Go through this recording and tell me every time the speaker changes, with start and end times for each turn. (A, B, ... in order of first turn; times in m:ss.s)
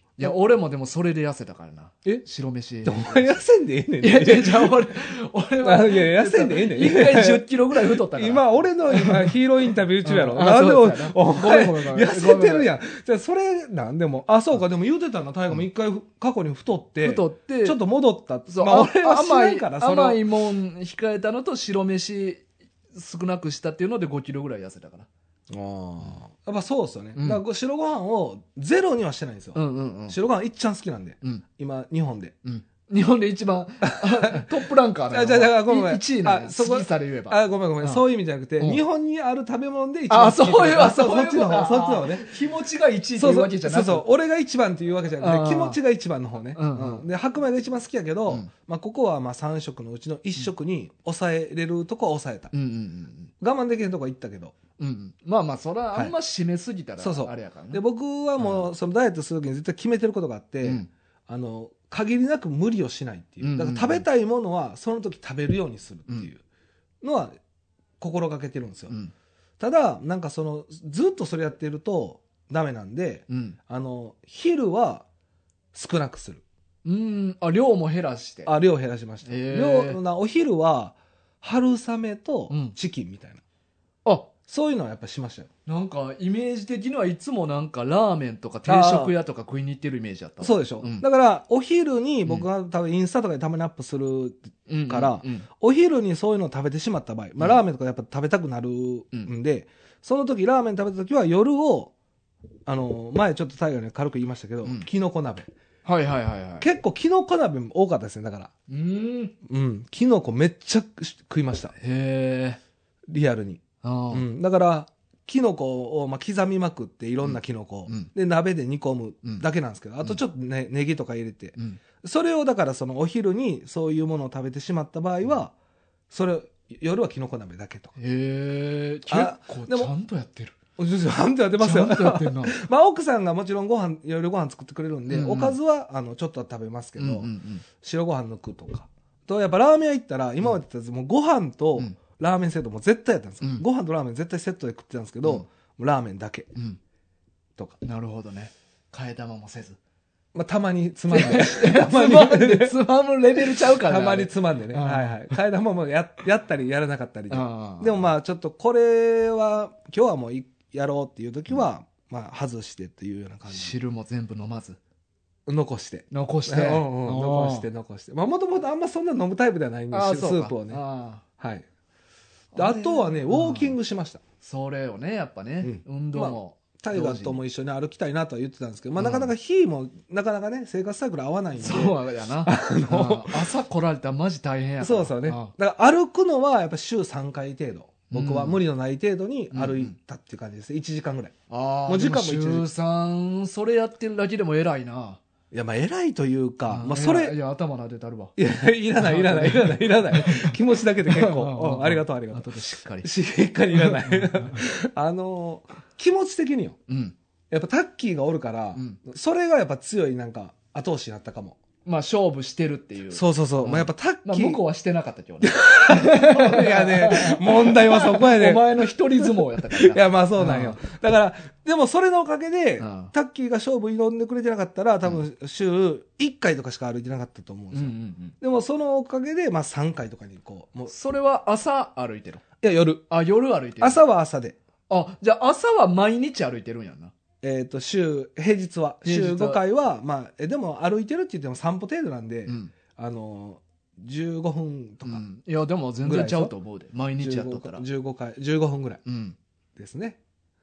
0:00.2-0:03.2 A
0:02.8-0:04.8 B
0:04.0-0:09.4 A
0:05.6-0:20.2 B
0:10.0-0:12.7 A
0:17.0-0:17.8 A
0:18.5-0:25.1 A
0:25.5-0:32.3 B
0:27.2-0:27.4 A
0:29.5-0:30.2 A
0:32.4-0:38.0 A
0:33.9-0:34.4 B
0:35.1-0:42.3 B
0:40.1-0:44.1 A
0:43.2-0:52.5 B
0:45.2-0:45.8 A
0:46.6-0:47.0 A
0:52.5-0:53.3 A
0:53.4-0:54.6 B
0:54.8-0:57.8 A
0:57.0-1:06.4 B
0:58.4-0:58.7 A
1:00.6-1:00.9 A
1:03.4-1:04.0 A
1:07.0-1:07.3 B
1:08.0-1:08.9 B
1:09.6-1:15.0 B
1:13.3-1:13.6 A
1:15.7-1:16.4 B
1:16.8-1:18.5 A
1:18.4-1:23.4 B
1:19.2-1:20.0 A
1:22.5-1:22.7 A
1:24.0-1:24.3 A
1:24.5-1:25.5 B
1:25.7-1:31.0 A
1:28.6-1:29.1 B
1:30.4-1:41.9 B
1:34.7-1:35.5 A
1:42.7-1:45.5 B
1:45.8-1:46.7 A
1:46.6-1:48.5 B
1:48.7-1:49.3 A
1:49.4-1:51.7 B
1:51.8-1:52.6 A
1:53.1-2:05.5 B
1:53.8-1:54.2 A
1:57.2-1:58.1 A
2:01.6-2:01.8 A
2:06.1-2:07.9 B
2:08.0-2:10.6 A
2:09.1-2:09.9 B
2:10.8-2:17.3 B
2:11.6-2:12.6 A
2:15.1-2:15.6 A
2:17.0-2:17.6 A
2:17.8-2:26.5 B
2:27.8-2:29.8 A
2:30.3-2:32.8 B
2:31.1-2:35.3 A
2:33.4-2:43.7 B
2:37.3-2:38.1 A
2:43.5-2:44.8 A
2:45.5-2:50.8 B
2:46.1-2:47.7 A
2:49.9-2:51.2 A
2:51.4-2:51.6 B
2:52.5-2:53.8 A
2:52.5-2:54.2 B
2:54.4-2:57.4 A
2:55.6-3:03.6 B
2:59.0-2:59.3 A
3:01.6-3:05.5 A
3:04.8-3:11.3 B
3:08.1-3:08.6 A
3:09.5-3:09.9 A
3:11.5-3:15.2 A
3:11.9-3:12.7 B
3:15.5-3:17.4 B
3:16.7-3:18.3 A
3:18.4-3:22.5 B
3:19.0-3:23.1 A
3:23.0-3:26.8 B
3:23.7-3:24.6 A
3:26.9-3:27.1 A
3:27.5-3:31.6 B
3:28.7-3:29.0 A
3:31.8-3:40.8 A
3:33.1-3:34.6 B
3:35.4-3:50.9 B
3:42.8-3:43.1 A
3:47.7-3:48.3 A
3:50.9-3:52.4 A
3:52.6-3:53.0 B
3:53.1-3:54.0 A
3:53.8-3:54.6 B
3:54.9-3:57.1 A
3:57.4-4:05.2 B
3:59.0-3:59.6 A
4:02.5-4:02.7 A
4:05.0-4:07.8 A
4:06.0-4:06.5 B
4:07.2-4:09.0 B
4:09.0-4:09.4 A
4:09.8-4:10.2 B